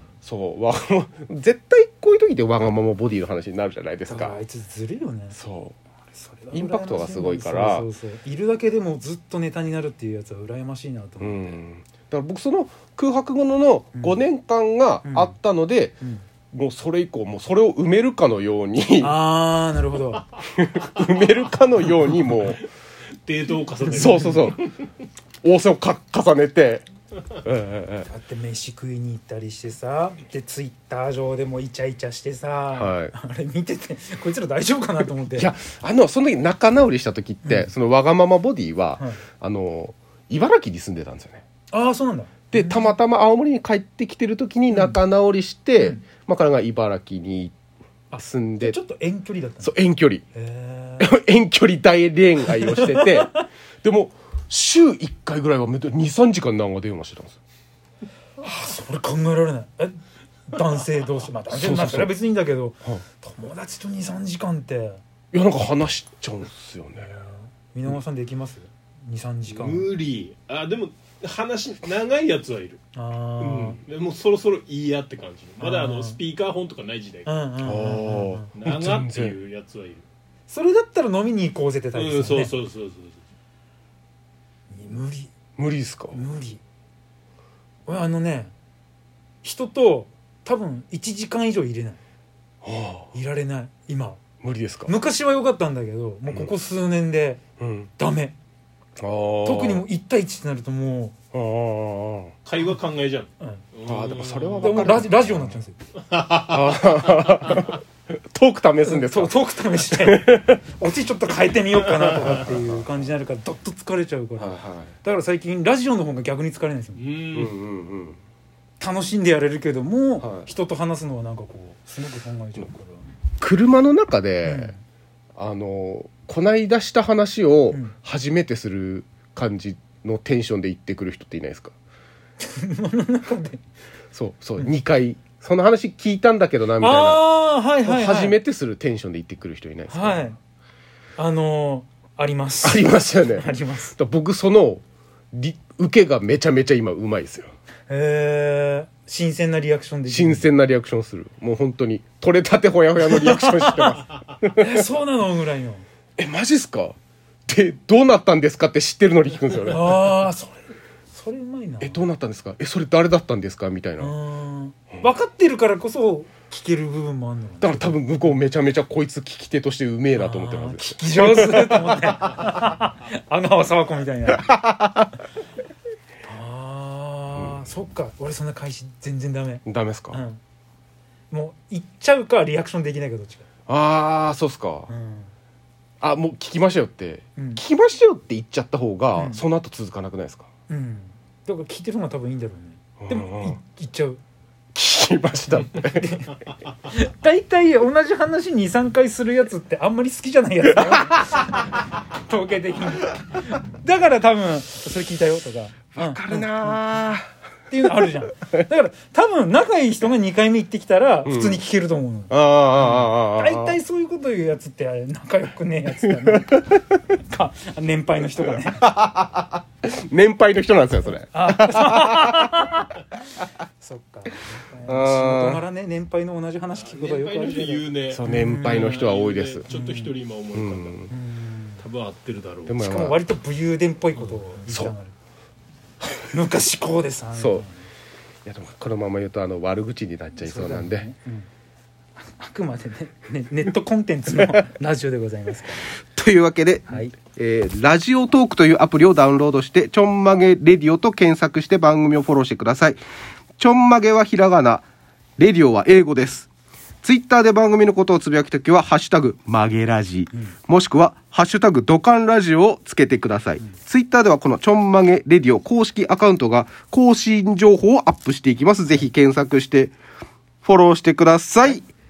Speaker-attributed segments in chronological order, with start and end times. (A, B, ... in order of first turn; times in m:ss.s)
0:00.2-0:04.4 A
0:04.0-0:05.4 B
0:05.3-0:05.8 A
0:06.1-0:11.6 B
0:06.5-0:07.9 A
0:11.2-0:16.0 A
0:13.9-0:14.2 B
0:15.0-0:15.4 B
0:16.5-0:19.2 A
0:19.0-0:20.2 B
0:20.6-0:22.6 A
0:23.2-0:24.4 C
0:23.8-0:24.4 B
0:23.9-0:24.6 A
0:25.4-0:26.8 A
0:27.4-0:28.1 A
0:28.0-0:35.5 B
0:32.7-0:33.1 A
0:35.3-0:41.4 A
0:37.4-0:37.7 B
0:41.7-0:42.9 B
0:42.5-0:47.5 A
0:44.7-0:45.0 B
0:48.1-0:49.7 B
0:48.2-0:48.8 A
0:49.6-0:50.2 A
0:50.3-0:51.1 B
0:51.0-0:57.4 A
0:52.5-0:53.4 B
0:58.4-1:05.0 B
1:01.5-1:02.1 A
1:05.3-1:07.1 A
1:07.1-1:09.9 B
1:09.5-1:12.8 C
1:12.9-1:13.8 B
1:13.4-1:17.3 C
1:15.6-1:16.2 B
1:17.2-1:18.5 B
1:17.6-1:19.4 A
1:18.5-1:20.0 C
1:20.5-1:22.5 B
1:21.9-1:23.2 C
1:24.7-1:25.3 B
1:25.6-1:26.2 A
1:26.1-1:26.6 B
1:27.8-1:28.5 B
1:29.4-1:32.0 B
1:32.6-1:33.1 A
1:33.1-1:34.2 B
1:34.4-1:34.9 A
1:34.9-1:37.4 B
1:36.3-1:36.5 A
1:37.6-1:37.9 A
1:38.0-1:38.3 B
1:39.0-1:39.8 A
1:39.4-1:41.1 B
1:41.3-1:42.3 A
1:42.4-1:45.0 C
1:43.8-1:45.6 A
1:44.6-1:45.8 B
1:46.1-1:46.8 C
1:46.4-1:50.6 A
1:48.8-1:57.0 B
1:52.2-1:52.8 A
1:54.4-1:54.9 A
1:57.0-1:57.6 C
1:57.3-1:58.2 A
1:58.8-2:03.1 B
2:00.2-2:00.5 A
2:03.4-2:04.7 A
2:04.4-2:04.8 B
2:05.4-2:11.7 A
2:12.4-2:13.6 B
2:14.1-2:17.2 A
2:16.8-2:18.4 B
2:17.8-2:20.2 A
2:19.9-2:20.4 B
2:21.2-2:23.9 B
2:22.6-2:24.8 A
2:25.3-2:27.5 A
2:27.9-2:30.5 B
2:30.1-2:34.5 A
2:33.0-2:34.0 B
2:34.5-2:35.8 B
2:36.2-2:37.0 A
2:37.5-2:40.0 A
2:39.6-2:42.0 B
2:41.8-2:44.1 A
2:44.0-2:48.3 B
2:47.6-2:52.4 A
2:50.1-2:54.5 B
2:54.4-2:55.1 A
2:56.2-3:00.4 B
2:57.4-2:57.6 A
2:59.6-3:00.2 A
3:01.3-3:03.4 B
3:03.7-3:04.9 A
3:04.9-3:05.3 B
3:06.0-3:10.5 A
3:07.4-3:07.6 B
3:09.2-3:09.4 B
3:10.7-3:14.2 B
3:13.0-3:13.6 A
3:14.7-3:16.3 A
3:15.7-3:16.3 B
3:16.8-3:27.0 B
3:25.9-3:27.2 A
3:27.7-3:38.8 B
3:31.2-3:31.6 A
3:32.3-3:33.8 A
3:38.8-3:42.7 A
3:41.3-3:42.8 B
3:43.8-3:49.0 B
3:44.8-3:45.6 A
3:46.8-3:51.0 C
3:48.1-3:49.7 A
3:49.7-3:50.2 B
3:50.5-3:51.1 A
3:51.1-3:51.8 B
3:51.8-3:52.8 C
3:52.7-3:53.2 A
3:52.7-3:55.1 B
3:54.6-3:54.9 A
3:56.3-3:57.8 B
3:57.4-3:57.6 A
3:58.4-4:01.1 A
4:00.4-4:01.5 B
4:02.2-4:05.9 B
4:06.1-4:13.0 A
4:06.9-4:07.1 B
4:13.6-4:14.8 A
4:15.4-4:16.5 A
4:17.0-4:29.9 A
4:30.6-4:31.9 A